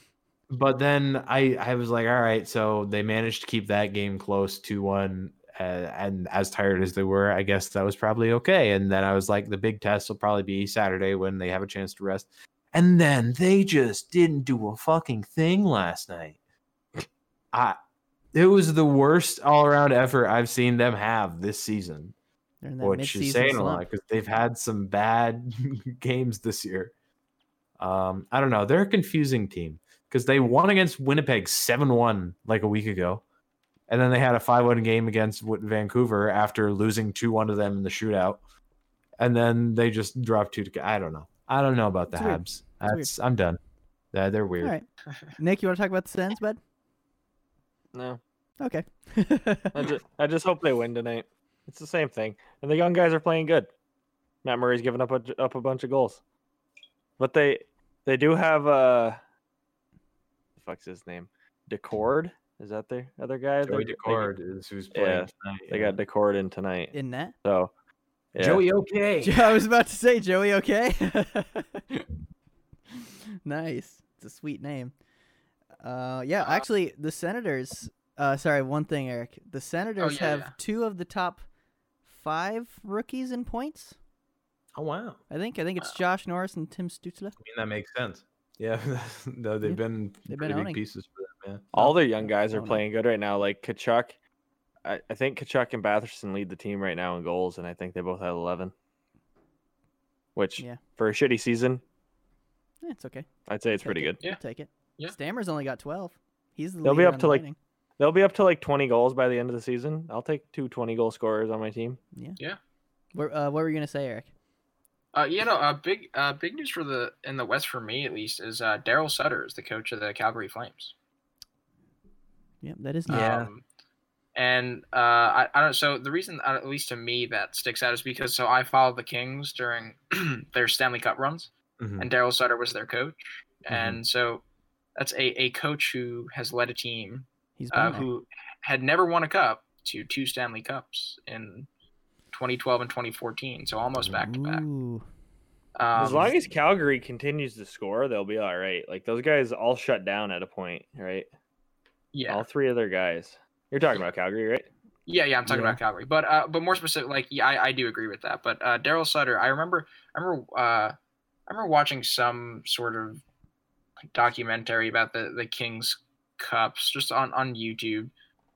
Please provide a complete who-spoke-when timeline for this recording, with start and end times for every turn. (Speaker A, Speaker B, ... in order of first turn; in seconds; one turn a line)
Speaker A: 0.5-16.4
Speaker A: 17.5-17.8
Speaker A: 18.3-22.1
Speaker B: 22.6-23.9
Speaker A: 22.8-26.9
Speaker A: 27.8-33.2
Speaker A: 33.9-38.4
Speaker A: 39.2-43.6
Speaker B: 42.1-43.1
Speaker A: 44.1-44.7
Speaker B: 44.6-46.6
Speaker C: 47.9-48.2
Speaker B: 48.6-49.9
Speaker C: 49.7-53.7
Speaker C: 54.4-56.2
Speaker C: 57.2-59.2
Speaker C: 60.6-64.3
Speaker A: 63.7-66.0
Speaker C: 64.9-67.7
Speaker B: 66.9-67.3
Speaker C: 68.3-68.6
Speaker A: 68.4-69.6
Speaker B: 69.2-72.1
Speaker B: 73.0-74.9
Speaker B: 75.8-81.4
Speaker D: 80.0-80.5
Speaker B: 82.1-84.0
Speaker A: 84.8-85.2
Speaker B: 85.3-87.4
Speaker A: 87.4-91.7
Speaker B: 89.6-90.8
Speaker C: 91.7-94.1
Speaker B: 91.8-92.8
Speaker C: 94.8-98.7
Speaker C: 100.3-101.8
Speaker B: 102.8-103.3
Speaker C: 103.5-104.2
Speaker B: 103.8-107.6
Speaker C: 106.8-107.4
Speaker C: 108.0-112.0
Speaker B: 112.2-112.4
Speaker B: 113.1-114.3
Speaker D: 115.1-120.9
Speaker B: 122.6-123.3
Speaker D: 123.1-123.6
Speaker A: 123.1-123.5
Speaker D: 124.3-134.4
Speaker A: 131.8-132.1
Speaker A: 133.7-134.0
Speaker D: 135.0-141.7
Speaker B: 137.6-138.1
Speaker D: 142.3-144.6
Speaker B: 144.2-145.1
Speaker D: 145.8-146.3
Speaker C: 146.0-151.3
Speaker D: 152.1-152.4
Speaker C: 152.3-154.7
Speaker D: 155.1-160.9
Speaker A: 155.5-155.8
Speaker D: 161.5-163.2
Speaker D: 164.1-168.1